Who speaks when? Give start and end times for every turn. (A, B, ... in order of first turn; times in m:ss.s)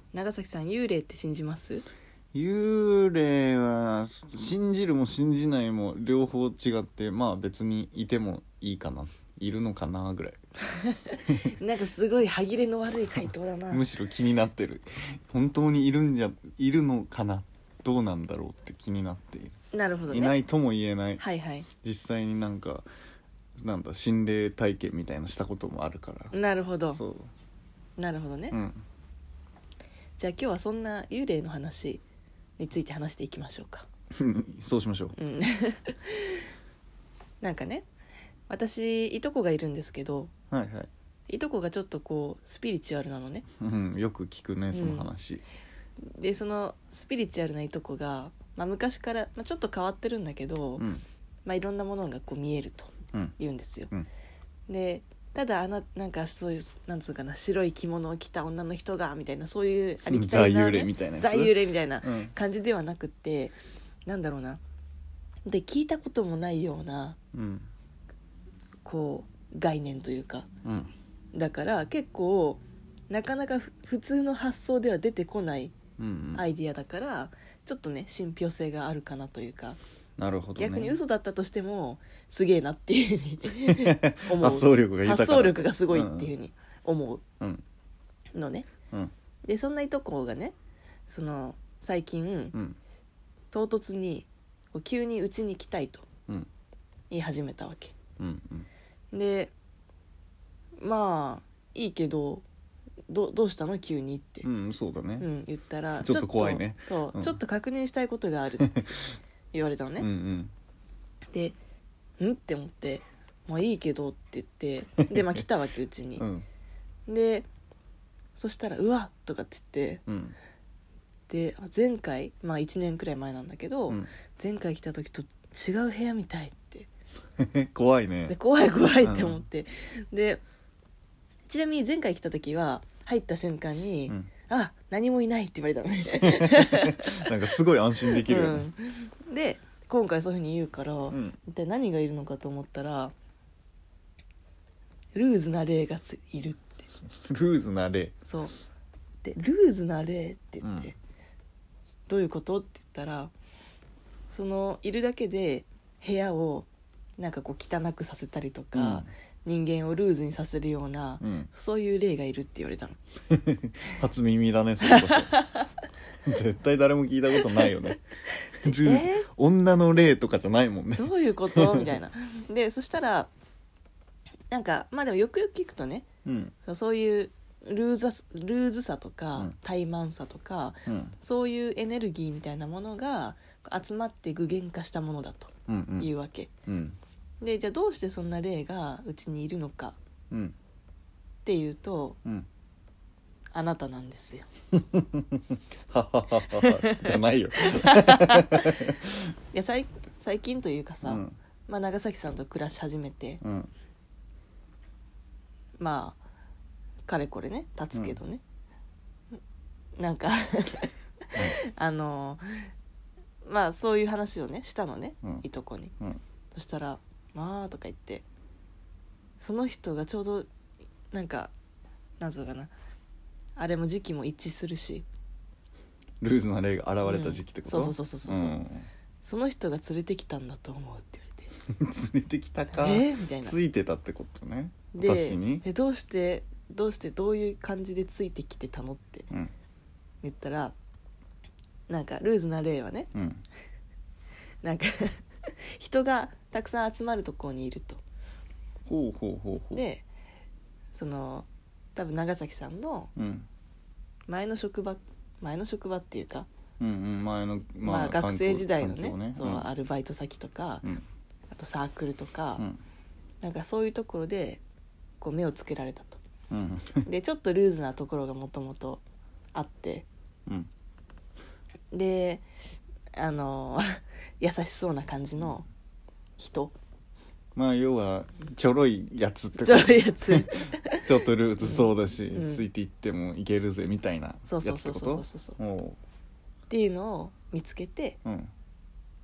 0:00.1-0:01.8 A
0:02.3-0:10.4 B
0:10.7-0:13.8 A
0:13.2-0:19.6 B
0:19.7-0:20.4 A
0:20.1-0:21.2 B
0:21.2-0:21.7 A
0:21.7-0:22.9 B
0:23.6-0:26.3 B
0:26.3-0:27.0 A
0:27.0-0:27.3 B
0:28.0-0:28.6 A
0:28.5-0:28.8 B
0:30.2-0:32.0 A
0:32.6-0:33.9 A
0:34.1-0:35.1 B
0:35.2-0:36.5 A
0:37.4-0:37.8 A
0:38.5-0:40.3 A
0:40.5-0:40.9 B
0:41.3-0:43.4 A
0:43.6-0:45.4 B
0:44.7-0:45.1 A
0:46.0-0:50.8 A
0:50.8-0:51.0 B
0:51.4-0:53.9 A
0:54.7-1:03.5 A
1:00.1-1:02.3 B
1:04.0-1:04.6 A
1:05.4-1:07.2 A
1:07.3-1:07.7 B
1:08.8-1:10.5 A
1:10.6-1:10.9 B
1:11.3-1:15.7 A
1:16.0-1:16.4 B
1:16.3-1:19.8 A
1:20.2-1:21.0 B
1:20.6-1:27.2 A
1:23.7-1:26.3 B
1:28.3-1:28.7 A
1:29.4-1:30.5 A
1:31.1-1:32.6 A
1:33.5-1:36.0 A
1:37.1-1:38.0 A
1:38.2-1:38.7 B
1:39.1-1:39.5 A
1:40.8-1:42.4 A
1:43.1-1:44.5 A
1:44.4-1:45.3 B
1:45.2-1:48.9 A
1:46.0-1:47.4 B
1:48.6-1:48.9 B
1:49.5-1:50.1 A
1:50.0-1:50.5 B
1:52.2-1:56.2 A
1:55.1-1:55.4 B
1:56.2-1:56.4 B
1:57.1-1:57.5 A
1:58.3-2:00.0 A
2:00.1-2:00.4 B
2:01.3-2:06.9 A
2:07.4-2:08.3 B
2:08.3-2:10.4 A
2:09.0-2:09.4 B
2:11.5-2:17.3 A
2:16.2-2:18.7 B
2:18.1-2:23.1 A
2:21.1-2:21.4 B
2:25.1-2:26.8 A
2:27.2-2:28.2 B
2:28.2-2:28.5 A
2:29.2-2:30.9 A
2:30.6-2:30.9 B
2:32.1-2:33.3 A
2:34.3-2:43.0 A
2:38.7-2:39.1 B
2:41.2-2:41.5 B
2:43.3-2:45.4 B
2:44.9-2:45.6 A
2:46.2-2:48.0 B
2:48.4-2:49.2 A
2:48.6-2:51.9 B
2:51.0-2:53.3 A
2:54.5-2:56.0 A
2:56.2-2:56.5 B
2:56.6-3:06.5 A
3:00.8-3:01.1 B
3:05.7-3:06.1 B
3:06.7-3:07.0 B
3:07.4-3:10.0 A
3:11.4-3:12.2 A
3:13.5-3:14.4 A
3:14.7-3:19.2 B
3:16.5-3:23.4 A
3:21.0-3:21.3 B
3:23.4-3:23.7 B
3:25.8-3:26.2 A
3:27.0-3:28.4 A
3:30.0-3:32.7 A
3:33.4-3:35.9 A
3:36.5-3:38.2 A
3:39.4-3:40.5 A
3:41.1-3:41.5 A
3:42.2-3:42.7 A
3:43.6-3:45.0 A
3:46.2-3:48.9 B
3:47.0-3:48.6 A
3:49.2-3:51.5 A
3:51.7-3:55.6 B
3:52.7-3:53.6 A
3:54.9-3:59.3 A
4:00.2-4:00.7 A
4:01.9-4:03.1 A
4:03.1-4:03.4 B
4:04.6-4:08.0 A
4:08.9-4:09.8 B
4:09.7-4:10.0 A
4:10.9-4:13.1 A
4:13.2-4:13.5 B
4:14.3-4:16.5 A
4:16.8-4:19.7 B
4:17.8-4:20.9 A
4:21.5-4:22.6 A
4:23.4-4:24.6 A
4:25.2-4:26.2 A
4:26.5-4:27.1 B
4:27.0-4:29.0 A
4:29.5-4:30.0 A
4:31.9-4:32.4 A
4:33.2-4:35.7 A
4:36.4-4:36.8 A
4:37.6-4:46.0 B
4:39.6-4:41.1 A
4:41.6-4:42.6 A
4:44.5-4:45.6 A
4:46.7-4:48.2 A
4:48.2-4:48.5 B